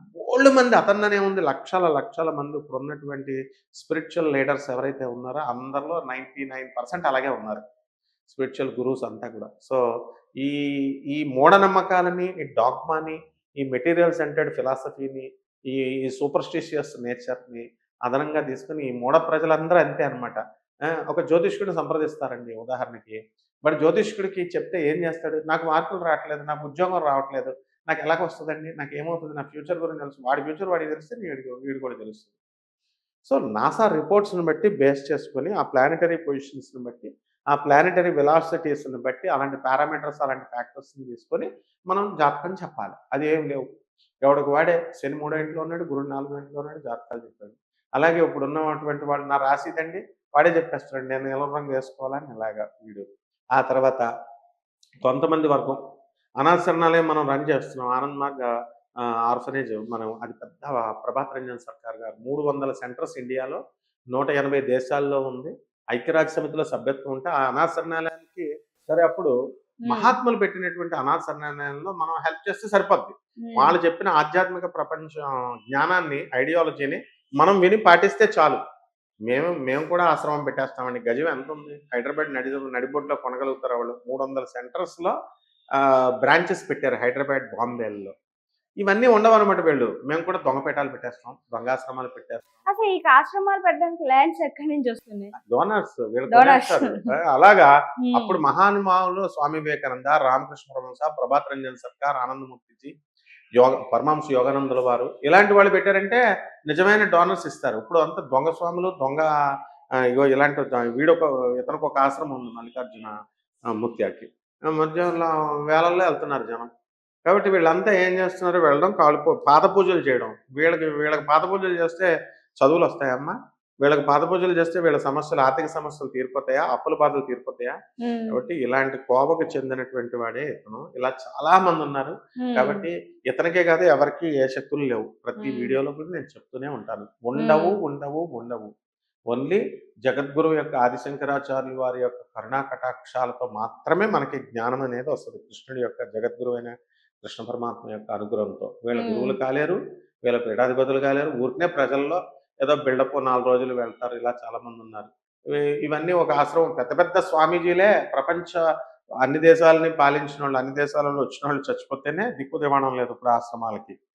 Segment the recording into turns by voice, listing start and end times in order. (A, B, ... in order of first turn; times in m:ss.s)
0:00.2-0:07.6 A
0:08.3-0:09.8 A
0:10.4-0:20.4 A
0:21.1-0:32.3 A
0:33.2-0:43.6 A
0:44.2-0:54.0 A
0:55.0-0:55.8 A
0:56.4-0:58.5 A
0:59.0-1:03.6 A
1:04.1-1:09.3 A
1:09.8-1:10.1 B
1:09.9-1:18.6 A
1:13.4-1:13.7 B
1:19.3-1:25.1 A
1:25.8-1:28.1 A
1:28.8-1:32.5 A
1:32.7-1:35.3 B
1:35.4-1:42.9 A
1:36.3-1:37.1 B
1:38.0-1:38.4 B
1:43.6-1:49.3 A
1:50.1-1:53.1 A
1:53.7-1:56.7 A
1:57.2-2:07.8 A
2:08.0-2:08.4 B
2:08.3-2:18.7 A
2:12.4-2:12.8 B
2:15.4-2:15.8 B
2:17.4-2:17.8 B
2:19.3-2:38.6 A
2:28.9-2:29.4 B
2:39.2-2:43.9 A